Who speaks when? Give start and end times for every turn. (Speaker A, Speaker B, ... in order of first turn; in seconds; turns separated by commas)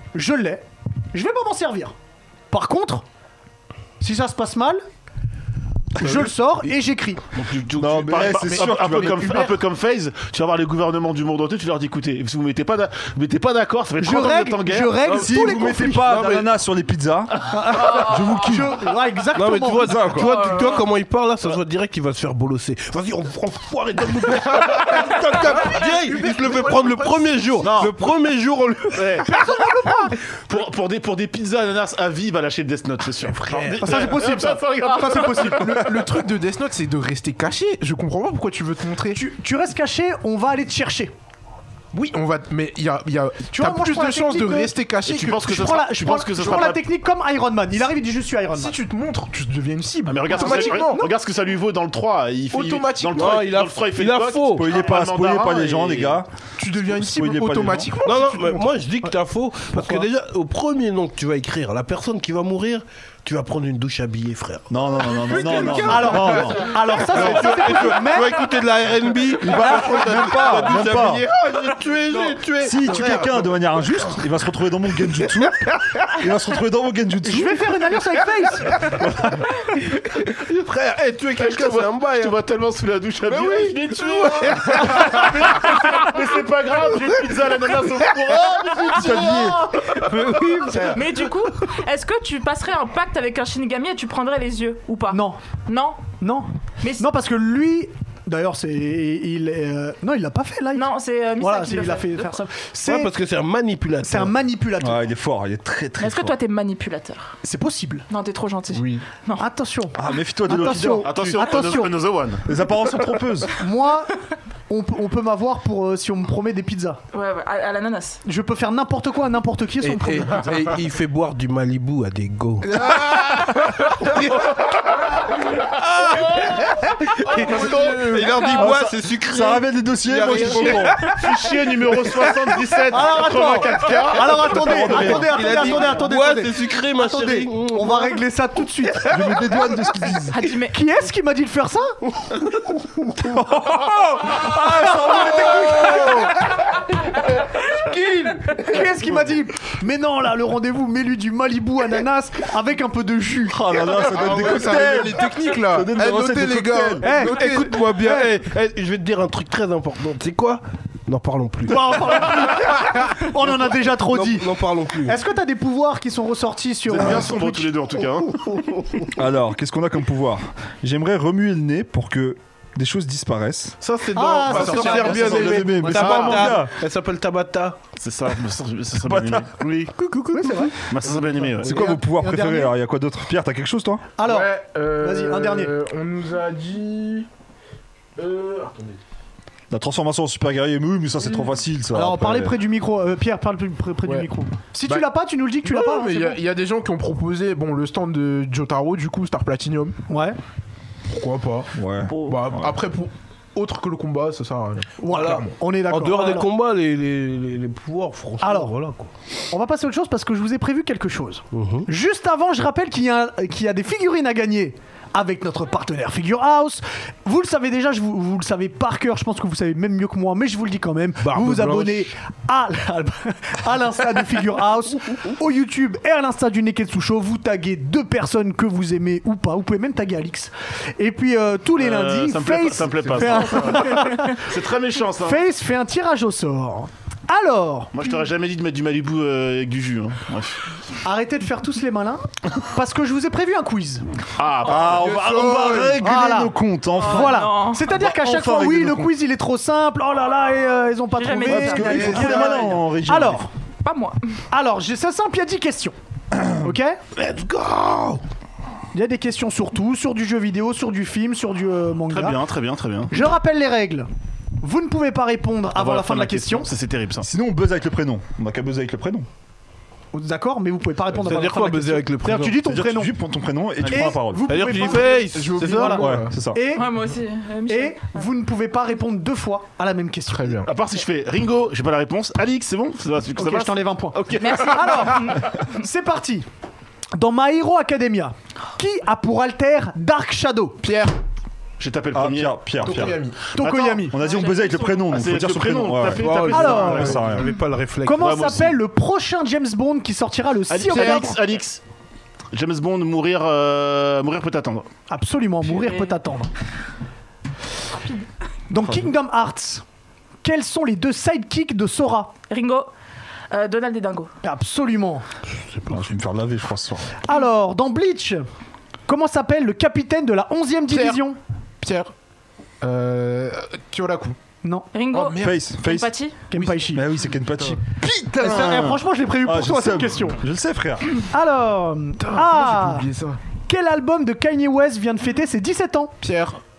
Speaker A: 0.1-1.9, Speaker A: 2.5-3.0, Speaker A: 4.0-4.8, Speaker A: 5.9-7.2, Speaker B: 7.3-15.1, Speaker C: 7.8-9.5, Speaker A: 14.0-16.2, Speaker D: 15.1-16.5, Speaker C: 15.1-18.8, Speaker A: 17.4-20.0, Speaker E: 17.8-18.4, Speaker D: 19.3-29.6, Speaker C: 19.8-20.5, Speaker E: 20.2-20.9, Speaker F: 24.7-27.6, Speaker B: 27.6-27.9, Speaker B: 28.9-29.3, Speaker A: 29.2-30.1, Speaker B: 30.5-35.8, Speaker D: 33.3-34.1, Speaker A: 33.8-36.0, Speaker F: 35.4-39.2, Speaker A: 39.1-41.1, Speaker F: 41.9-45.6, Speaker A: 43.5-44.7, Speaker B: 45.1-46.8, Speaker A: 45.4-48.7, Speaker F: 48.5-51.0, Speaker B: 50.0-56.2, Speaker A: 50.3-51.1, Speaker F: 52.5-53.5, Speaker D: 53.1-54.7, Speaker C: 54.5-57.9, Speaker F: 56.6-58.8, Speaker D: 58.0-74.1, Speaker A: 59.7-60.1, Speaker C: 64.7-66.7, Speaker F: 65.5-65.7, Speaker A: 65.8-68.5, Speaker C: 69.4-71.2, Speaker A: 69.6-70.1, Speaker C: 72.5-77.7, Speaker A: 77.2-79.0, Speaker C: 78.8-79.4, Speaker D: 79.8-82.4, Speaker B: 81.4-89.5, Speaker D: 83.3-85.3, Speaker C: 88.9-90.0, Speaker E: 89.2-90.0, Speaker D: 89.9-91.3, Speaker E: 90.8-96.0, Speaker A: 95.1-95.4, Speaker A: 96.2-103.1, Speaker E: 96.8-97.0, Speaker E: 100.7-102.4, Speaker D: 102.8-104.4, Speaker A: 104.0-105.0, Speaker C: 104.8-106.3, Speaker E: 106.0-107.4, Speaker A: 107.4-108.0, Speaker E: 108.1-109.5, Speaker F: 108.7-109.0, Speaker A: 109.4-111.9, Speaker C: 109.9-111.2, Speaker B: 111.0-112.5, Speaker C: 112.4-113.5, Speaker A: 113.6-114.1, Speaker A: 114.7-117.0, Speaker E: 117.1-118.2, Speaker A: 118.2-120.5, Speaker D: 119.8-124.3, Speaker F: 122.6-124.0, Speaker D: 125.7-131.5, Speaker F: 127.2-128.6, Speaker C: 128.4-131.1, Speaker B: 131.1-134.7, Speaker D: 132.1-132.5, Speaker A: 132.9-139.4, Speaker C: 134.5-135.8, Speaker D: 134.7-138.2, Speaker C: 139.1-140.4, Speaker E: 140.3-140.8, Speaker A: 140.7-141.9, Speaker C: 143.2-146.5, Speaker A: 144.7-146.3, Speaker D: 147.9-148.9, Speaker A: 148.6-153.6, Speaker C: 153.5-157.1, Speaker F: 153.9-158.2, Speaker A: 157.0-157.6, Speaker D: 157.1-162.5, Speaker A: 161.7-167.7, Speaker D: 164.1-165.2, Speaker B: 166.9-168.4, Speaker D: 168.5-169.1, Speaker C: 169.1-173.8, Speaker D: 173.8-177.8, Speaker A: 174.1-176.6, Speaker F: 174.5-175.5, Speaker C: 174.9-176.7, Speaker B: 175.9-176.4, Speaker B: 178.0-179.9, Speaker C: 179.0-179.5, Speaker D: 179.8-181.7, Speaker A: 180.3-180.7, Speaker B: 180.9-181.8, Speaker A: 181.6-182.7, Speaker C: 181.7-184.1, Speaker A: 184.2-185.7, Speaker F: 184.2-187.3, Speaker F: 188.2-189.0, Speaker C: 189.7-192.5, Speaker A: 191.9-196.4, Speaker F: 195.6-200.0, Speaker A: 200.1-200.4, Speaker F: 201.0-205.5, Speaker C: 201.7-202.7, Speaker A: 205.0-206.5, Speaker D: 205.2-209.1, Speaker A: 208.4-208.7, Speaker A: 209.5-234.4, Speaker D: 211.5-211.9, Speaker D: 221.2-222.1, Speaker B: 231.8-235.4, Speaker A: 235.2-237.9, Speaker B: 237.9-240.7, Speaker A: 241.0-244.0, Speaker B: 244.4-245.1, Speaker C: 244.7-249.1, Speaker F: 244.8-246.0, Speaker A: 246.0-253.5, Speaker E: 247.0-247.8, Speaker E: 251.2-252.7, Speaker C: 251.4-253.4, Speaker E: 253.8-254.2, Speaker A: 254.5-255.9, Speaker A: 256.5-257.0, Speaker D: 257.1-258.2, Speaker A: 258.9-262.4, Speaker B: 262.1-263.1, Speaker A: 263.1-264.1, Speaker A: 264.6-266.7, Speaker B: 265.7-267.3, Speaker C: 267.2-269.3, Speaker A: 270.1-273.1, Speaker D: 271.1-272.6, Speaker C: 272.6-274.6, Speaker B: 273.8-274.1, Speaker A: 273.8-276.9, Speaker D: 274.5-276.1, Speaker F: 274.8-276.4, Speaker C: 276.0-276.6, Speaker E: 276.7-278.3, Speaker A: 277.7-280.6, Speaker F: 280.3-280.7, Speaker B: 280.6-284.4, Speaker A: 283.4-286.4, Speaker E: 284.3-285.6, Speaker A: 287.1-290.8, Speaker F: 290.8-291.1, Speaker B: 291.8-292.6, Speaker C: 292.1-293.3, Speaker F: 292.8-293.4, Speaker A: 293.5-294.2, Speaker B: 293.6-294.2, Speaker C: 294.1-296.4, Speaker E: 294.2-295.2, Speaker B: 295.1-297.3, Speaker D: 296.1-298.6, Speaker A: 296.5-297.1, Speaker C: 296.9-297.5, Speaker A: 298.0-301.4, Speaker B: 298.2-298.8, Speaker B: 300.7-301.8, Speaker F: 300.9-301.2, Speaker B: 302.5-304.9, Speaker A: 305.1-306.5, Speaker A: 308.7-309.8, Speaker C: 308.8-309.1, Speaker A: 310.4-312.3, Speaker E: 312.5-312.9, Speaker E: 313.5-314.3, Speaker A: 314.4-315.2, Speaker D: 315.7-316.0, Speaker C: 315.9-317.1, Speaker A: 317.2-318.4, Speaker A: 319.1-321.4, Speaker F: 320.9-321.2, Speaker F: 321.8-322.1, Speaker F: 322.8-324.4, Speaker A: 324.6-324.9, Speaker E: 324.9-326.4, Speaker F: 325.1-325.7, Speaker C: 325.4-326.1, Speaker A: 326.5-327.1, Speaker C: 326.8-331.2, Speaker A: 328.3-330.4, Speaker A: 331.3-333.1, Speaker F: 332.2-333.4, Speaker A: 333.7-336.1, Speaker F: 336.2-336.6